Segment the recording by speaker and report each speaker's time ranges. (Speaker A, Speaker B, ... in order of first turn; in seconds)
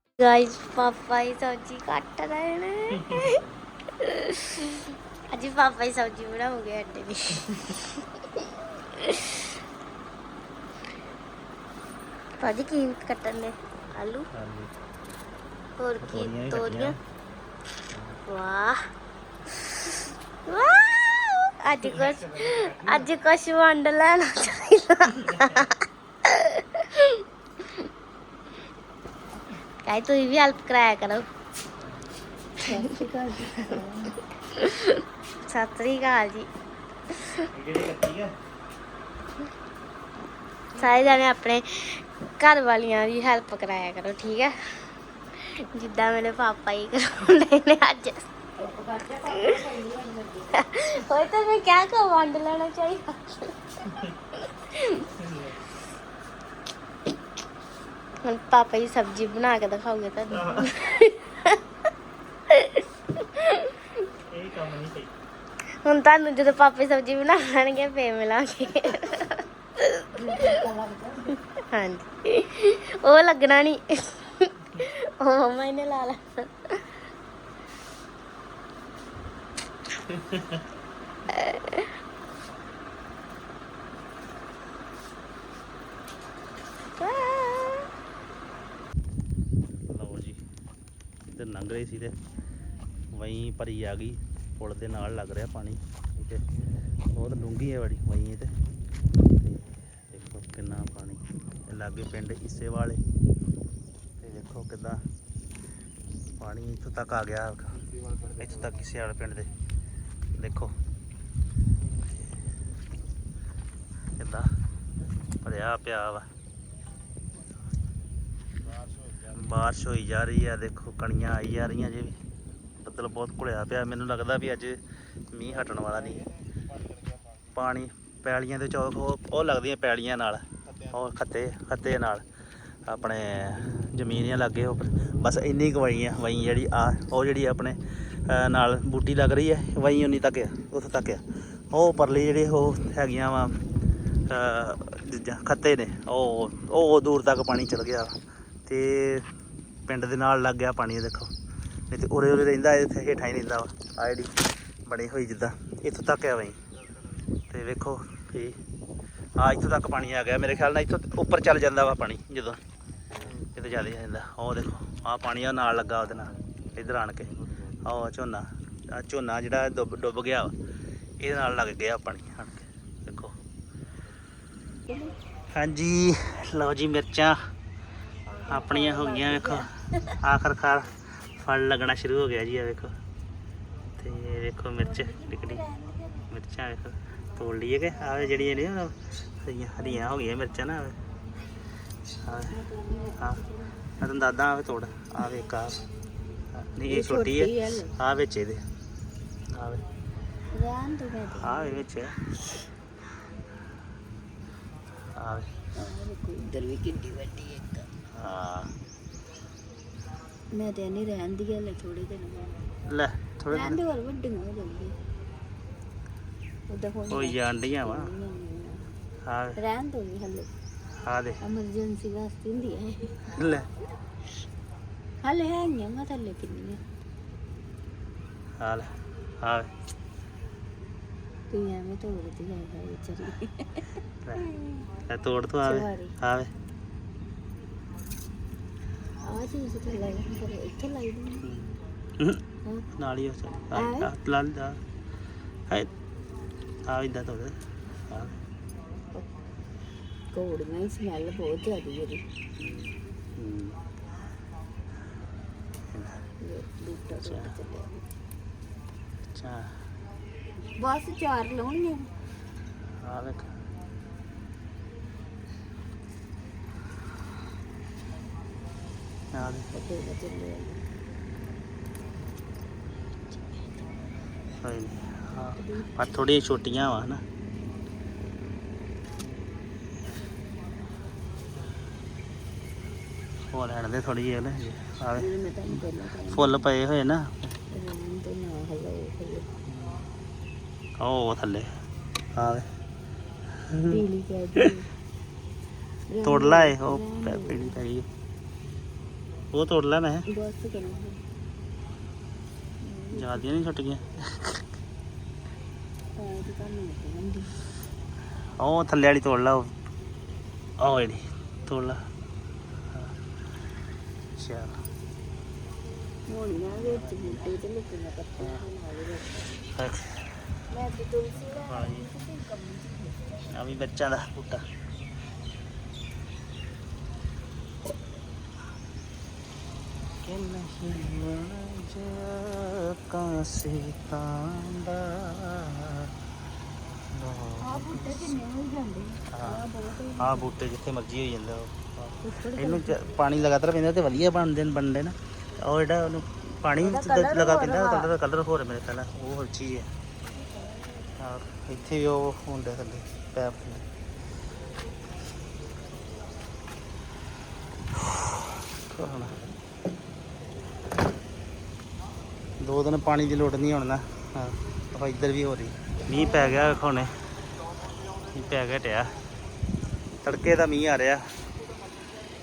Speaker A: 0.2-3.4, 4.0-9.5, 12.4-14.3, 15.8-17.0, 18.3-18.8, 19.6-27.2, 29.9-31.3, 34.6-36.5, 40.8-44.6, 45.3-48.3, 50.6-53.5, 54.4-55.0, 58.2-61.6, 62.5-64.0, 65.8-70.5, 71.7-76.8, 81.3-81.9, 87.0-87.9
Speaker B: 14.3-14.7, 16.0-17.0, 17.9-18.2, 22.1-23.1, 37.5-38.4, 55.2-55.6, 60.4-60.7, 64.3-65.1, 89.9-90.4, 91.3-92.2, 93.1-96.4, 97.1-98.5, 99.4-103.0, 104.2-105.0, 106.4-107.8, 108.4-109.5, 110.4-110.8, 114.2-114.5, 115.4-116.3, 119.2-122.2, 122.8-124.8, 125.3-126.3, 127.5-132.2, 132.9-143.6, 144.3-148.2, 148.7-149.3, 149.9-151.3, 151.9-154.3, 154.9-156.6, 157.5-158.6, 159.4-162.6, 163.3-170.5, 171.2-173.3, 175.5-177.4, 178.5-182.9, 184.0-185.7, 186.3-191.0, 192.2-192.5, 194.0-195.8, 196.6-198.6, 199.6-199.8, 201.4-202.2, 205.2-205.5, 208.2-208.7, 212.9-213.8, 217.1-218.1, 219.3-219.6, 221.1-221.4, 223.3-223.7, 228.6-229.7, 235.1-236.5, 241.4-242.4, 243.0-244.8, 246.9-247.6, 248.1-248.4, 252.6-253.8, 255.9-256.2, 257.2-257.5, 259.4-259.7, 263.0-263.5, 269.3-269.7, 274.6-277.2, 283.5-287.5, 289.7-290.1, 291.0-291.8, 292.4-292.7, 293.7-294.0, 296.2-298.1, 299.5-300.3, 303.2-304.6, 308.6-309.7, 310.8-312.0, 314.4-314.8, 316.7-317.5, 319.8-320.3, 321.6-322.1, 323.5-324.6, 330.2-336.1, 337.1-338.4, 339.3-339.6, 340.2-349.9, 351.2-353.8, 358.0-359.4, 362.6-367.2, 368.3-369.2, 370.2-371.3
Speaker C: 32.6-34.2, 48.6-50.6, 70.2-71.4, 174.9-175.2, 178.3-180.1, 185.2-185.9, 192.5-193.8, 196.9-197.9, 200.5-201.9, 205.8-207.9, 210.6-212.6, 213.5-214.9, 216.7-218.8, 219.6-220.5, 221.4-223.3, 225.2-226.8, 231.5-234.9, 235.6-236.2, 239.2-241.5, 243.7-244.1, 250.3-252.2, 256.4-258.1, 260.8-262.1, 269.7-270.8, 275.5-276.2, 285.2-286.6, 287.7-289.5, 293.9-294.9, 296.1-297.8, 300.3-301.2, 302.8-303.5, 306.2-307.6, 316.3-319.6, 320.7-323.4, 337.6-340.5, 342.2-343.1, 346.8-348.1, 350.4-351.1